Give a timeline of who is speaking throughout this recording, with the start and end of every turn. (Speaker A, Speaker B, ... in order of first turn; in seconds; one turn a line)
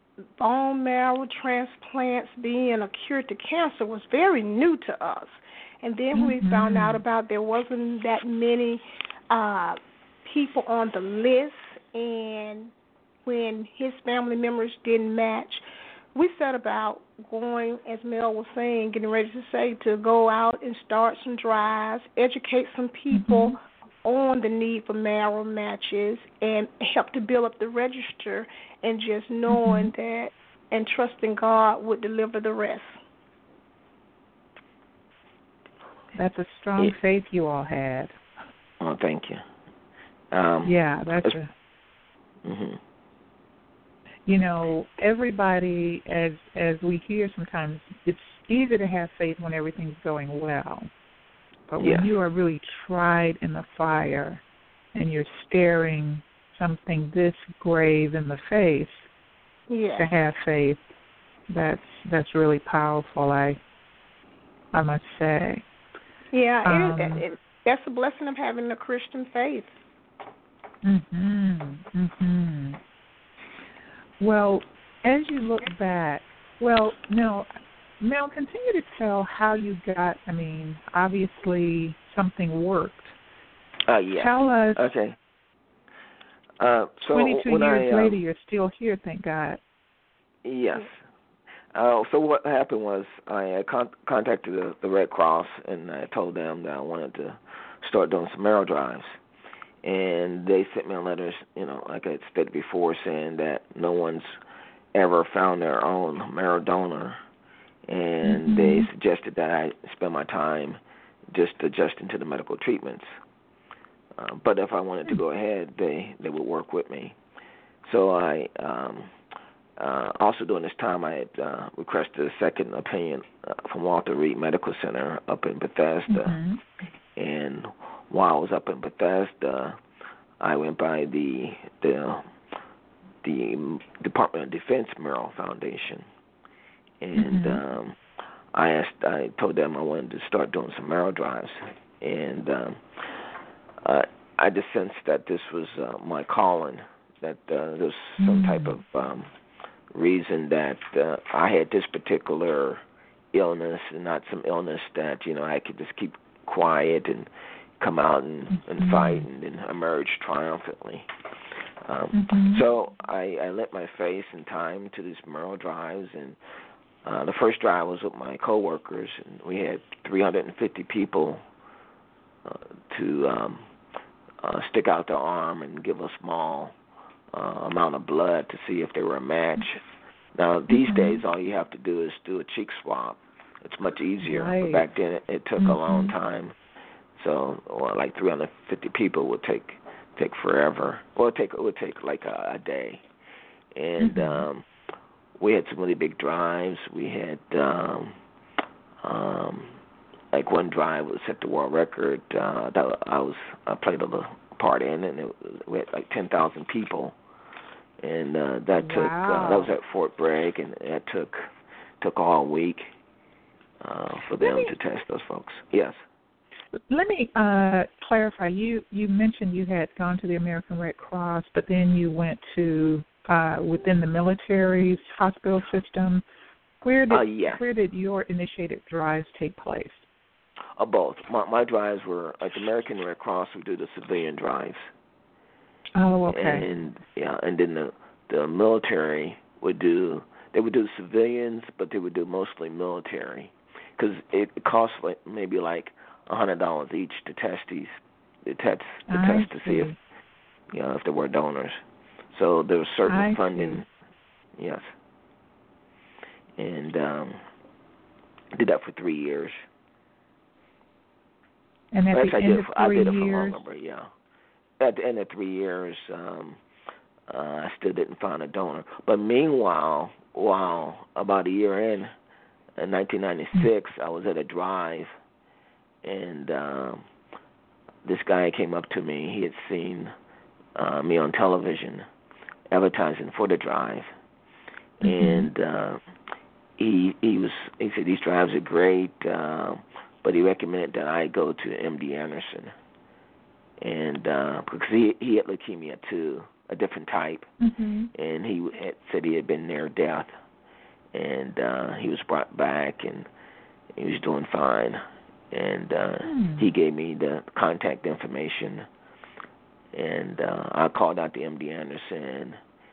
Speaker A: 0.4-12.7
Speaker B: 6.1-7.0
Speaker A: 13.3-15.6
Speaker A: 16.1-33.0
Speaker B: 23.1-23.6
Speaker B: 29.5-29.9
Speaker B: 36.1-38.1
Speaker C: 38.8-39.4
Speaker C: 40.3-41.4
Speaker B: 40.6-41.5
Speaker C: 42.5-42.8
Speaker B: 44.3-50.9
Speaker B: 51.7-54.4
Speaker C: 51.8-52.1
Speaker B: 54.9-59.1
Speaker A: 59.7-60.1
Speaker B: 60.0-60.8
Speaker B: 61.5-63.6
Speaker B: 64.7-65.6
Speaker A: 66.3-69.8
Speaker B: 66.7-67.2
Speaker B: 70.8-72.8
Speaker B: 74.2-77.5
Speaker B: 78.0-83.2
Speaker C: 83.9-85.2
Speaker B: 84.2-84.8
Speaker C: 86.6-88.2
Speaker B: 87.1-89.6
Speaker C: 90.4-91.0
Speaker C: 91.7-99.1
Speaker C: 99.8-104.3
Speaker C: 104.9-107.2
Speaker C: 107.9-110.8
Speaker B: 108.2-108.9
Speaker C: 111.3-113.1
Speaker C: 114.2-117.2
Speaker C: 117.8-119.1
Speaker C: 119.8-126.4
Speaker B: 126.1-126.6
Speaker C: 127.2-129.8
Speaker C: 130.4-132.3
Speaker C: 133.2-136.1
Speaker C: 137.0-138.0
Speaker B: 137.1-137.6
Speaker C: 138.5-143.1
Speaker C: 143.8-149.3
Speaker B: 148.2-148.8
Speaker C: 149.9-152.8
Speaker C: 153.3-157.3
Speaker C: 157.8-161.1
Speaker B: 158.5-159.3
Speaker C: 161.8-166.4
Speaker B: 162.1-162.6
Speaker C: 167.0-171.4
Speaker C: 172.5-173.7
Speaker C: 174.4-176.8
Speaker C: 177.3-179.8
Speaker C: 180.3-186.6
Speaker B: 180.7-181.2
Speaker B: 184.2-184.9
Speaker B: 185.6-186.1
Speaker C: 187.2-193.0
Speaker C: 193.8-194.6
Speaker B: 194.0-194.5
Speaker C: 195.4-198.2
Speaker C: 199.0-199.8
Speaker C: 200.3-207.2
Speaker C: 208.0-211.5
Speaker B: 208.8-209.7
Speaker C: 212.0-212.9
Speaker C: 213.8-216.0
Speaker B: 214.4-214.7
Speaker B: 216.9-226.2
Speaker B: 226.8-230.1
Speaker C: 227.1-227.6
Speaker C: 230.8-234.9
Speaker B: 236.0-236.7
Speaker C: 236.3-249.9
Speaker B: 249.1-250.0
Speaker C: 250.7-251.8
Speaker C: 252.3-253.9
Speaker B: 253.1-253.8
Speaker C: 254.6-254.9
Speaker C: 256.6-257.4
Speaker C: 258.6-259.6
Speaker B: 261.9-263.6
Speaker C: 262.1-264.1
Speaker C: 264.8-266.6
Speaker C: 267.3-272.1
Speaker C: 272.8-275.1
Speaker C: 276.0-277.1
Speaker C: 278.0-280.1
Speaker C: 280.8-282.1
Speaker C: 282.7-284.1
Speaker C: 285.0-286.0
Speaker B: 285.0-285.5
Speaker C: 286.8-292.7
Speaker C: 293.8-297.5
Speaker B: 297.6-298.1
Speaker C: 298.1-300.3
Speaker C: 301.1-303.3
Speaker C: 303.9-308.9
Speaker B: 306.2-306.7
Speaker C: 309.9-312.6